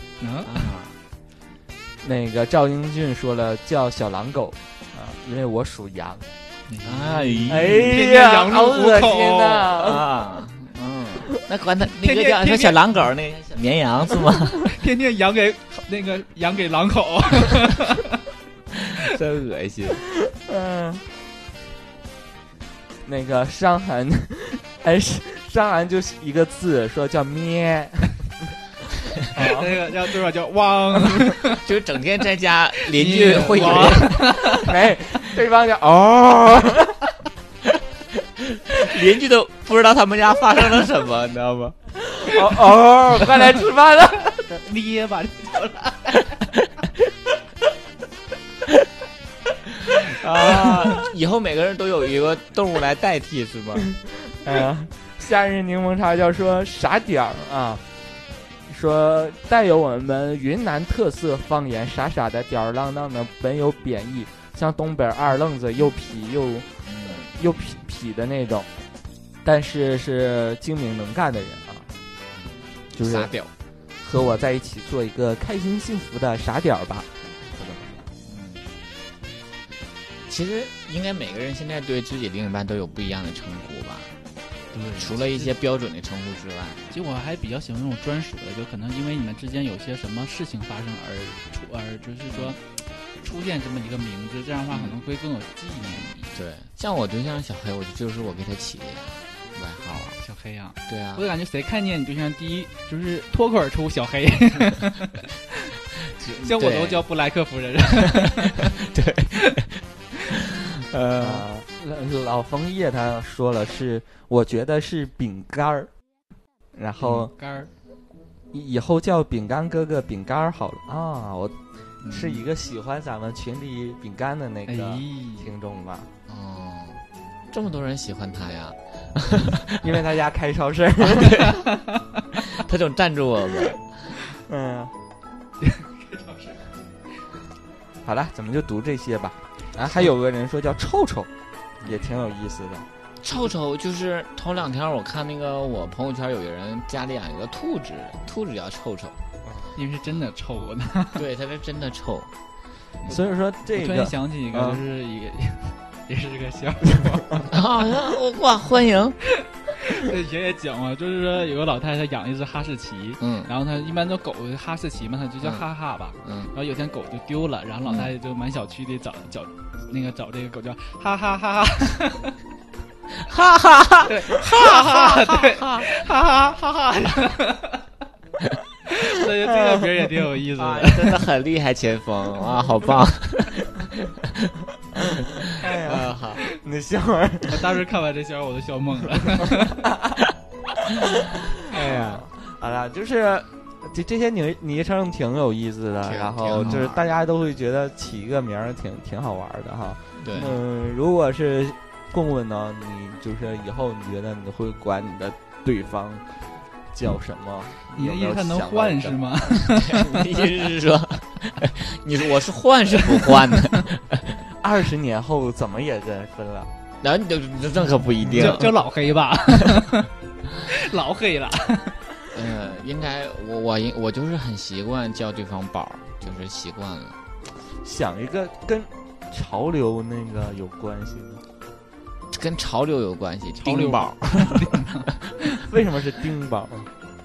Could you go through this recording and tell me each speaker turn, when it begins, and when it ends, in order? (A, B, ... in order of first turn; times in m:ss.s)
0:00.2-0:00.7 A
0:00.4-0:01.0 B
0:02.0-0:06.2 C
0:06.7-0:09.8 A
0:06.8-0:08.0 B
0:07.5-0:10.0 C
0:09.8-0:14.7 B
0:12.0-0:12.8 A
0:14.6-0:18.2 A
0:18.7-0:20.0 B
0:20.3-0:21.0 C
0:23.0-0:28.2 C
0:29.2-0:29.6 C
0:29.3-0:31.6 A
0:31.6-0:34.2 B
0:32.8-0:34.8 A
0:33.9-0:37.0 C
0:38.1-0:41.8 B
0:42.2-0:44.4 C
0:44.3-0:46.5 A
0:49.8-0:53.9 B
0:54.4-0:57.8 C
0:58.7-1:08.7 C
1:06.8-1:07.3 B
1:09.4-1:11.9 C
1:12.3-1:13.5 B
1:12.9-1:13.3 C
1:14.0-1:18.0 C
1:18.2-1:18.6 B
1:20.3-1:24.1 B
1:24.7-1:25.5 A
1:24.9-1:26.8 B
1:26.9-1:36.4 A
1:32.3-1:32.6 B
1:34.7-1:35.0 B
1:36.3-1:40.2 B
1:39.9-1:45.6 A
1:40.9-1:41.3 B
1:46.2-1:47.0 B
1:46.2-1:48.7 A
1:48.0-1:49.8 B
1:50.4-1:51.5 B
1:51.2-1:55.9 C
1:56.7-1:57.3 C
1:57.0-1:57.7 A
1:58.5-2:06.1 C
2:02.0-2:02.4 B
2:04.7-2:05.5 A
2:06.3-2:10.0 B
2:09.8-2:11.6 C
2:11.0-2:11.6 B
2:12.3-2:14.0 B
2:14.4-2:14.9 C
2:15.6-2:16.6 A
2:18.0-2:21.3 C
2:21.8-2:22.8 C
2:23.2-2:29.2 B
2:29.4-2:29.8 C
2:29.8-2:31.3 A
2:31.1-2:32.3 B
2:33.1-2:34.8 C
2:33.7-2:37.5 A
2:37.5-2:39.2 B
2:39.3-2:52.4 A
2:43.2-2:43.5 B
2:46.2-2:46.5 B
2:47.8-2:48.1 B
2:53.1-2:55.9 B
2:54.1-2:57.8 A
2:58.9-3:01.3 A
2:59.4-3:00.1 C
3:00.6-3:04.5 B
3:04.9-3:07.6 C
3:05.1-3:06.4 B
3:07.5-3:09.9 A
3:09.8-3:10.2 C
3:10.9-3:26.2 C
3:11.7-3:12.2 B
3:16.0-3:17.0 B
3:20.2-3:20.6 B
3:26.9-3:29.2 C
3:27.9-3:30.4 A
3:29.7-3:34.4 B
3:33.2-3:33.6 A
3:34.5-3:36.7 C
3:37.0-3:38.8 B
3:38.3-3:40.1 A
3:40.6-3:42.0 A
3:42.3-3:47.2 B
3:47.8-3:51.4 C
3:52.3-3:54.9 B
3:53.6-3:55.6 A
3:55.6-3:56.9 C